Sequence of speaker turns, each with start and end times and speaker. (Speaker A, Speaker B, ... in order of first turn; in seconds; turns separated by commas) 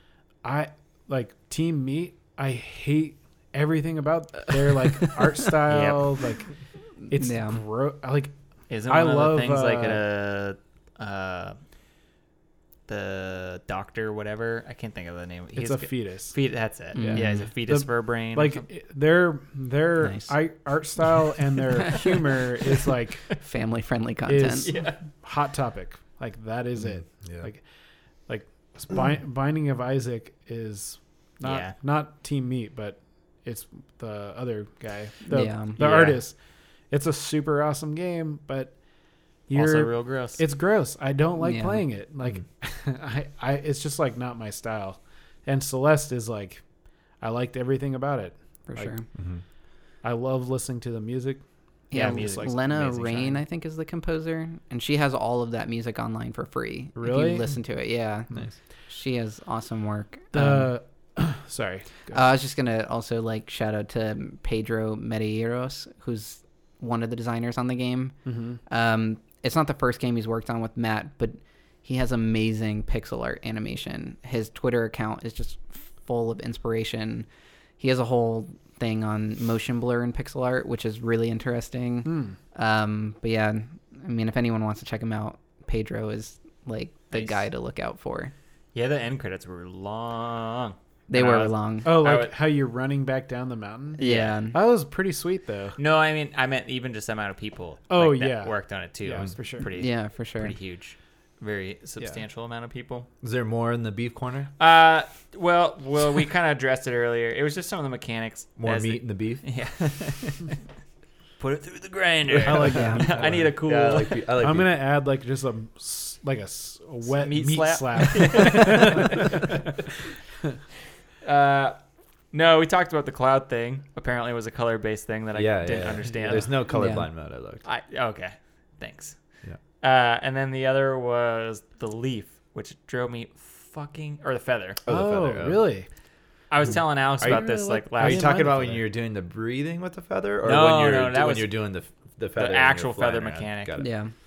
Speaker A: 0.4-6.5, Speaker B: 5.7-6.1, Speaker C: 7.1-7.6, Speaker A: 7.1-8.3, Speaker B: 8.7-11.6, Speaker A: 8.9-10.0, Speaker B: 12.9-18.6, Speaker A: 15.6-16.4, Speaker C: 16.9-17.5, Speaker A: 17.0-23.4, Speaker C: 20.0-20.3, Speaker C: 23.4-24.7, Speaker A: 24.3-27.6, Speaker B: 24.6-25.0, Speaker D: 26.8-27.5, Speaker A: 28.3-36.4, Speaker B: 31.4-31.8, Speaker C: 35.3-35.8, Speaker A: 36.9-38.8, Speaker A: 39.5-46.6, Speaker B: 39.5-40.4, Speaker C: 41.4-41.9, Speaker A: 47.2-49.0, Speaker C: 48.7-49.1, Speaker D: 49.1-49.4, Speaker A: 50.0-52.5, Speaker C: 51.9-58.3, Speaker B: 51.9-53.4, Speaker A: 57.0-57.6, Speaker C: 58.9-60.7, Speaker A: 60.3-62.3, Speaker C: 62.1-68.2, Speaker A: 68.3-68.6, Speaker C: 68.7-77.3, Speaker C: 77.8-88.3, Speaker A: 82.0-82.4, Speaker B: 87.1-87.4, Speaker B: 88.7-92.3, Speaker C: 91.1-92.0, Speaker A: 91.8-94.0, Speaker B: 94.0-94.4, Speaker C: 94.0-94.6, Speaker A: 94.5-95.8, Speaker B: 95.8-103.1, Speaker A: 97.9-99.7, Speaker C: 99.7-100.5, Speaker D: 103.2-104.5, Speaker B: 104.6-110.6, Speaker D: 108.6-109.4, Speaker B: 111.4-114.3, Speaker A: 112.3-113.5, Speaker C: 112.7-113.1, Speaker D: 113.0-114.7, Speaker A: 114.4-119.8, Speaker B: 117.1-119.5, Speaker B: 121.2-121.8, Speaker B: 122.3-126.5, Speaker D: 125.3-127.6, Speaker A: 125.9-126.5, Speaker C: 126.7-127.1, Speaker B: 127.6-129.2, Speaker B: 129.8-134.8, Speaker D: 134.8-135.6, Speaker A: 134.9-135.9, Speaker B: 136.5-138.3, Speaker D: 136.7-143.9, Speaker A: 137.3-138.8, Speaker B: 140.4-141.6, Speaker B: 142.4-143.8, Speaker C: 143.8-144.1